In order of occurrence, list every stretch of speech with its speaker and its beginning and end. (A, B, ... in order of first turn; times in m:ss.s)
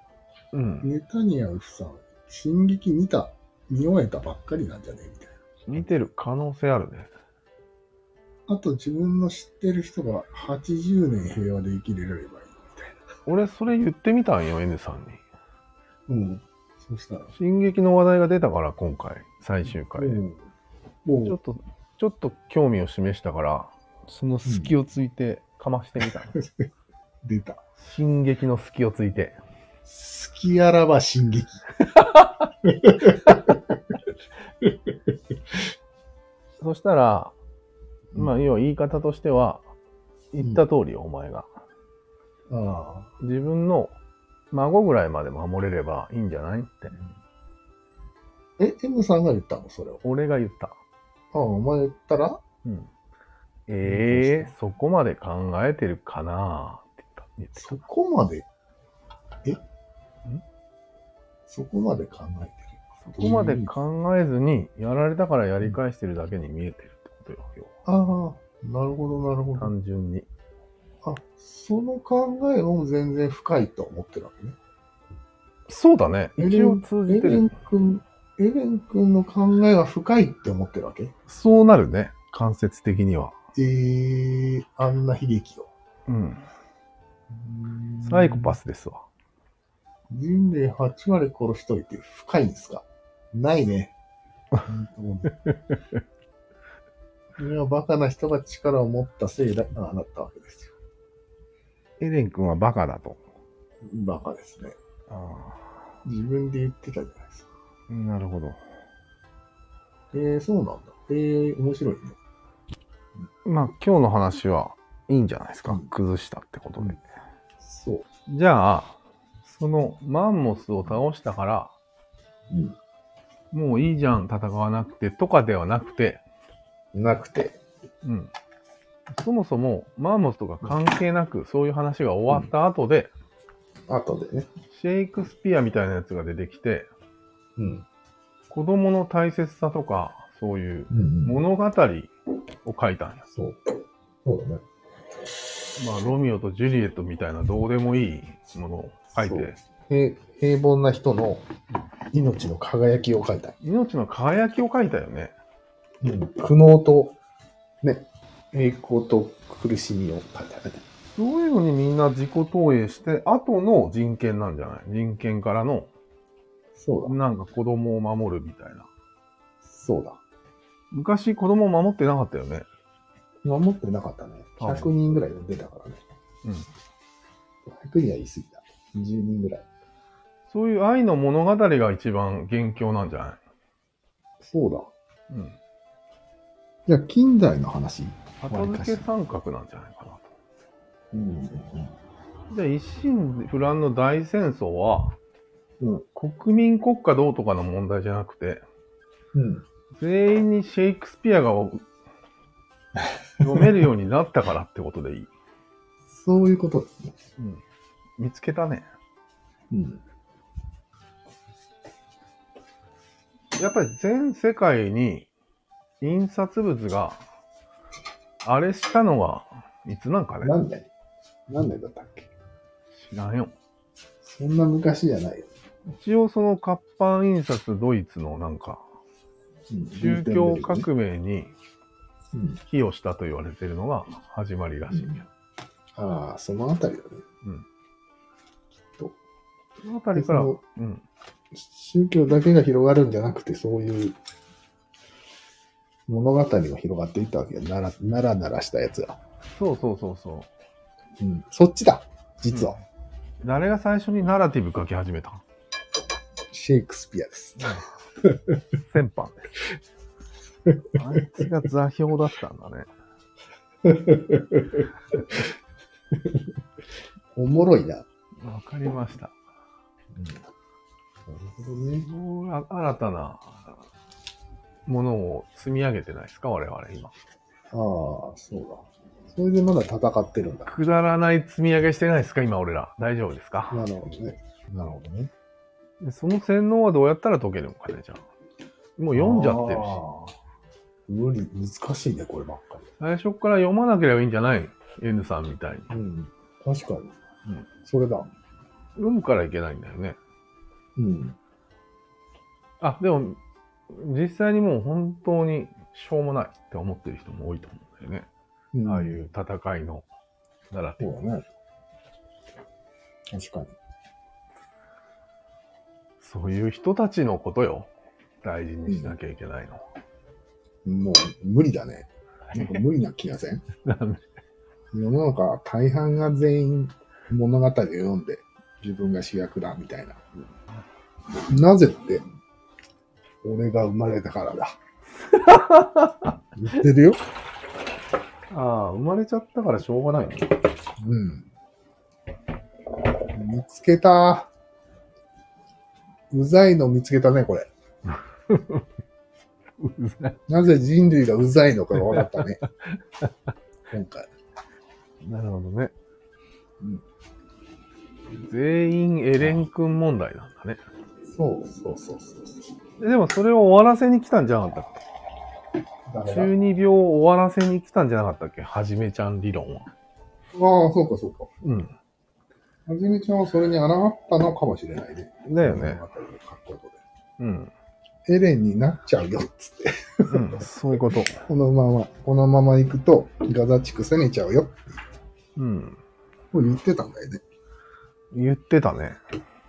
0:00.5-0:00.9 A
0:00.8-0:05.9 B
0:05.7-0:07.1 A
0:08.5-0:13.0 B
0:13.3-0:15.2 A
0:16.1-0:17.3 B
0:17.3-0:20.2 A
0:20.0-0:20.5 B
0:21.0-0:21.4 B
0:21.2-0:26.4 A
0:24.4-0:24.7 B
0:26.3-0:26.7 B
0:27.2-0:27.6 B
0:27.8-0:29.4 A
0:29.8-0:31.6 B
0:31.8-0:32.5 A
0:32.7-0:33.6 B
0:33.3-0:33.5 A
0:36.6-0:37.4 A
0:38.2-0:39.6 A
0:40.3-0:41.5 A
0:42.5-0:43.1 B
0:43.2-0:44.0 A
0:44.5-0:47.0 A
0:48.6-0:50.0 B
0:50.0-0:50.8 A
0:51.3-0:52.4 B
0:52.6-0:52.9 A
0:53.7-0:57.8 A
0:53.8-0:54.5 B
0:57.6-0:58.5 B
1:01.5-1:03.8 B
1:03.0-1:07.8 A
1:07.9-1:09.7 B
1:09.6-1:10.3 A
1:11.0-1:14.6 B
1:15.7-1:17.5 A
1:16.4-1:21.1 B
1:21.3-1:23.4 A
1:23.6-1:25.7 B
1:26.1-1:26.5 A
1:27.3-1:28.5 B
1:28.0-1:29.1 A
1:30.1-1:33.9 B
1:34.6-1:35.4 B
1:35.4-1:35.8 A
1:37.4-1:40.7 B
1:42.0-1:43.2 A
1:43.9-1:44.8 B
1:45.1-1:45.6 A
1:46.0-1:47.5 B
1:47.9-1:48.6 A
1:50.1-1:52.2 B
1:53.4-1:57.0 A
1:57.6-1:58.0 B
1:58.3-2:01.7 A
2:02.5-2:02.8 B
2:03.5-2:06.2 A
2:06.9-2:07.6 B
2:08.0-2:08.3 A
2:09.1-2:13.1 A
2:13.9-2:14.5 B
2:14.7-2:16.9 A
2:17.6-2:17.9 B
2:18.5-2:22.1 A
2:20.9-2:21.4 B
2:22.6-2:23.3 A
2:23.3-2:24.6 B
2:25.8-2:29.6 A
2:29.2-2:31.5 B
2:32.1-2:33.6 B
2:33.6-2:35.4 A
2:36.0-2:37.2 B
2:37.8-2:40.8 B
2:41.2-2:45.9 A
2:46.8-2:47.2 B
2:47.0-2:48.9 A
2:49.7-2:50.2 B
2:50.9-2:52.7 A
2:53.4-2:56.0 B
2:54.6-2:54.9 A
2:56.4-2:56.7 A
2:57.7-2:59.6 B
3:00.5-3:03.4 A
3:04.4-3:04.9 B
3:05.3-3:05.6 A
3:06.9-3:09.0 B
3:08.4-3:10.3 A
3:11.1-3:11.9 B
3:12.5-3:15.2 A
3:15.8-3:16.0 B
3:16.1-3:18.6 A
3:19.3-3:19.6 B
3:19.9-3:21.8 A
3:23.4-3:25.3 A
3:26.1-3:27.1 B
3:27.4-3:27.6 A
3:28.2-3:28.9 A
3:29.7-3:30.0 B
3:33.6-3:35.3 A
3:36.0-3:37.2 A
3:38.4-3:40.5 A
3:40.4-3:40.9 B
3:41.5-3:42.3 B
3:42.9-3:43.5 A
3:44.2-3:45.5 B
3:45.9-3:48.8 A
3:49.7-3:50.9 B
3:50.0-3:51.5 A
3:52.3-3:52.6 B
3:52.7-3:55.3 A
3:54.9-3:55.2 B
3:56.0-3:57.2 B
3:59.8-4:01.0 A
4:00.2-4:00.6 B
4:01.5-4:04.2 B
4:06.1-4:09.2 B
4:09.6-4:10.5 A
4:11.2-4:12.8 B
4:12.5-4:12.8 A
4:13.4-4:15.4 A
4:16.5-4:18.4 B
4:18.8-4:19.5 A
4:20.7-4:21.5 B
4:21.0-4:22.9 A
4:23.8-4:24.8 B
4:27.4-4:28.0 B
4:28.4-4:29.4 A
4:30.1-4:30.4 B
4:31.3-4:32.1 B
4:32.1-4:33.8 A
4:34.9-4:37.2 A
4:37.7-4:40.7 B
4:40.7-4:43.8 A
4:43.7-4:45.3 B
4:46.0-4:48.2 A
4:49.0-4:50.0 A
4:49.1-4:50.3 B
4:51.1-4:52.9 B
4:53.0-4:55.9 A
4:55.9-4:57.1 B
4:57.8-4:58.3 B
4:59.0-5:00.2 A
5:01.0-5:01.4 B
5:02.8-5:08.3 A
5:08.7-5:09.2 B
5:08.8-5:10.1 A
5:10.7-5:11.4 A
5:11.0-5:11.4 B
5:13.3-5:13.8 B
5:16.2-5:17.9 A
5:18.4-5:19.8 A
5:18.9-5:19.2 B
5:20.8-5:23.6 B
5:22.5-5:22.8 A
5:23.8-5:24.3 A
5:24.9-5:30.2 B
5:31.5-5:32.2 B
5:33.4-5:34.7 B
5:35.3-5:36.4 A
5:36.6-5:37.2 B
5:38.5-5:40.6 A
5:41.0-5:41.5 B
5:43.3-5:44.5 B
5:46.3-5:47.7 B
5:48.2-5:48.8 A
5:49.8-5:50.4 A
5:50.5-5:52.7 B
5:52.1-5:52.4 A
5:53.9-5:54.3 B
5:55.2-5:55.9 A
5:58.4-6:00.8 A
6:01.3-6:02.6 B
6:03.0-6:05.0 A
6:06.1-6:06.5 B
6:06.2-6:09.9 A
6:10.5-6:11.5 B
6:11.6-6:11.9 A
6:12.9-6:17.0 B
6:15.5-6:16.0 A
6:17.4-6:17.7 A
6:18.3-6:20.6 B
6:20.3-6:21.4 A
6:21.4-6:25.0 B
6:25.6-6:26.0 A
6:26.5-6:27.4 B
6:28.3-6:29.2 A